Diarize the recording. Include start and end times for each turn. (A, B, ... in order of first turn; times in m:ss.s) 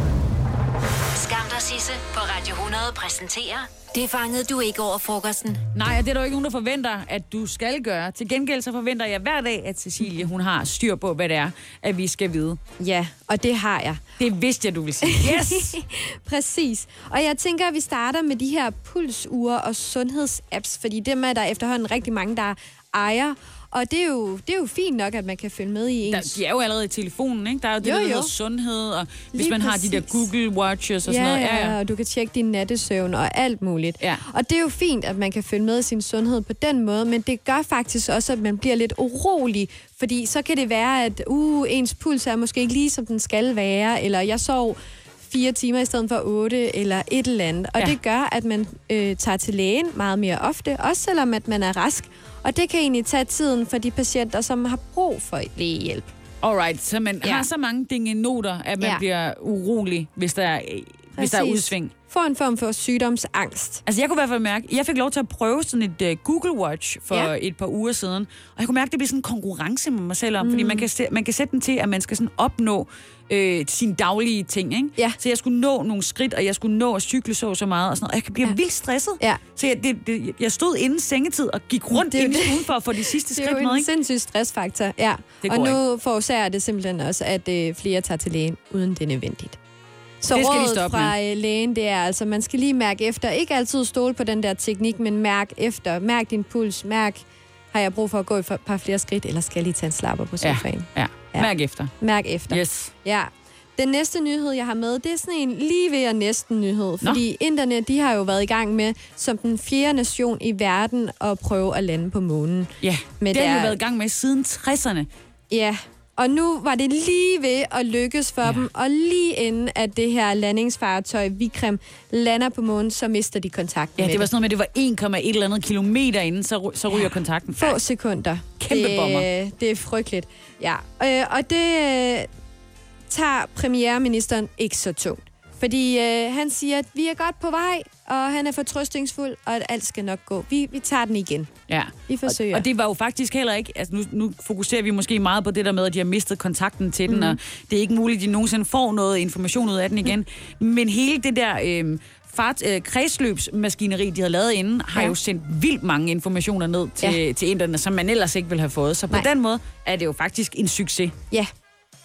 0:01.1-0:05.6 A
0:05.7-0:12.6 B
0:12.8-0:14.0 C
0:14.2-0:15.8 B
0:15.0-0:26.4 C
0:26.0-0:31.8 B
0:27.8-0:28.3 C
0:29.3-0:30.2 C
0:31.1-0:56.1 C
0:56.4-1:01.9 B
1:01.2-1:03.8 C
1:03.9-1:23.9 B
1:10.4-1:10.9 C
1:21.9-1:29.6 C
1:25.4-1:25.8 B
1:30.2-1:53.8 C
1:30.3-1:31.1 B
1:40.4-1:41.9 B
1:42.5-1:42.9 B
1:52.8-1:55.1 B
1:55.5-2:04.3 C
2:04.0-2:07.8 B
2:07.6-2:12.3 C
2:08.6-2:09.3 B
2:13.1-2:21.5 C
2:21.7-2:41.2 B
2:22.1-2:22.6 C
2:27.1-2:27.4 C